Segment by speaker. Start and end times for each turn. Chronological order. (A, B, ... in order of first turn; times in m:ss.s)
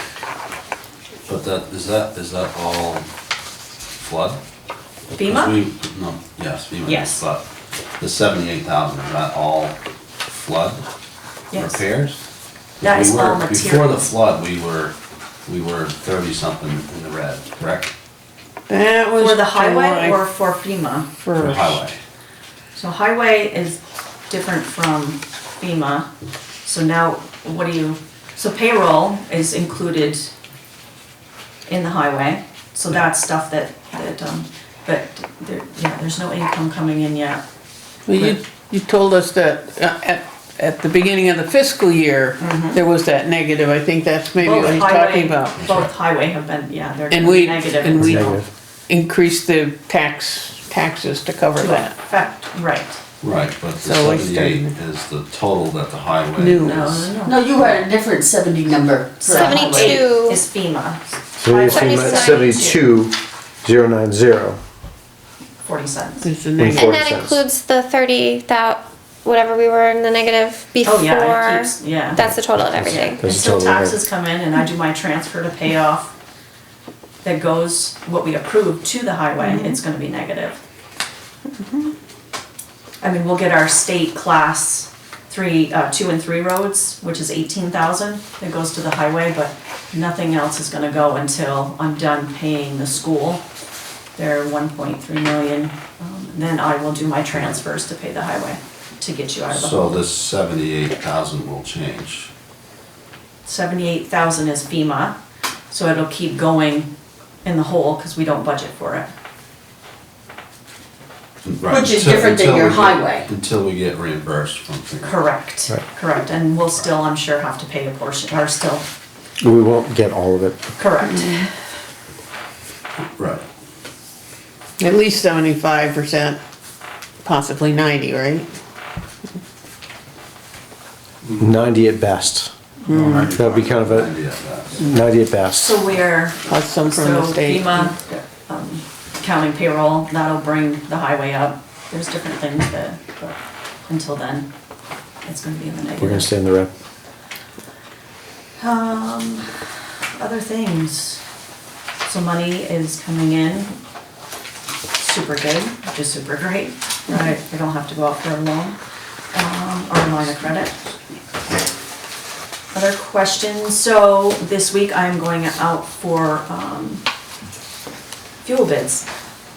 0:01.2-0:03.1 A
0:04.0-0:04.4 A
0:05.2-0:05.6 B
0:05.2-0:07.4 A
0:06.8-0:07.2 B
0:08.0-0:09.8 A
0:10.4-0:10.8 A
0:11.5-0:11.8 B
0:11.5-0:12.2 A
0:12.8-0:15.0 A
0:12.8-0:14.1 B
0:15.5-0:17.9 A
0:18.7-0:20.2 C
0:19.2-0:21.1 B
0:21.2-0:21.9 C
0:21.4-0:22.0 A
0:22.8-0:26.1 B
0:26.6-0:30.3 B
0:31.7-0:37.4 B
0:38.1-0:45.6 C
0:38.1-0:38.4 B
0:42.4-0:42.8 B
0:44.4-0:48.4 B
0:45.6-0:45.9 A
0:47.1-0:51.9 C
0:48.0-0:48.5 D
0:51.6-0:53.0 B
0:53.2-0:57.1 A
0:53.8-0:54.8 C
0:56.4-0:57.1 C
0:56.6-0:57.8 B
0:57.2-0:59.9 E
0:59.2-1:02.8 B
0:59.3-1:00.4 F
1:01.4-1:04.6 D
1:01.7-1:02.7 F
1:05.6-1:06.3 B
1:06.2-1:06.9 C
1:06.6-1:07.4 D
1:06.7-1:13.2 F
1:10.8-1:16.1 B
1:13.0-1:14.0 D
1:17.2-1:20.6 B
1:23.0-1:33.4 B
1:34.2-1:40.0 B
1:39.5-1:42.3 A
1:43.4-1:45.2 B
1:45.7-1:46.9 B
1:47.4-1:49.1 B
1:51.4-1:55.3 A
1:51.7-1:53.2 E
1:55.0-1:58.8 B
1:59.4-2:00.6 D
2:00.8-2:01.5 B
2:03.1-2:03.4 A
2:04.8-2:06.4 C
2:07.2-2:08.5 C
2:11.4-2:12.5 D
2:12.9-2:13.3 C
2:12.9-2:14.7 A
2:13.3-2:14.1 D
2:14.8-2:15.8 D
2:15.6-2:24.5 B
2:16.5-2:17.9 C
2:25.2-2:26.3 B
2:26.0-2:26.7 D
2:28.6-2:29.6 B
2:30.2-2:31.2 B
2:32.0-2:33.8 B
2:34.9-2:38.8 B
2:39.3-2:40.8 B
2:42.7-2:47.0 B
2:48.4-2:49.1 B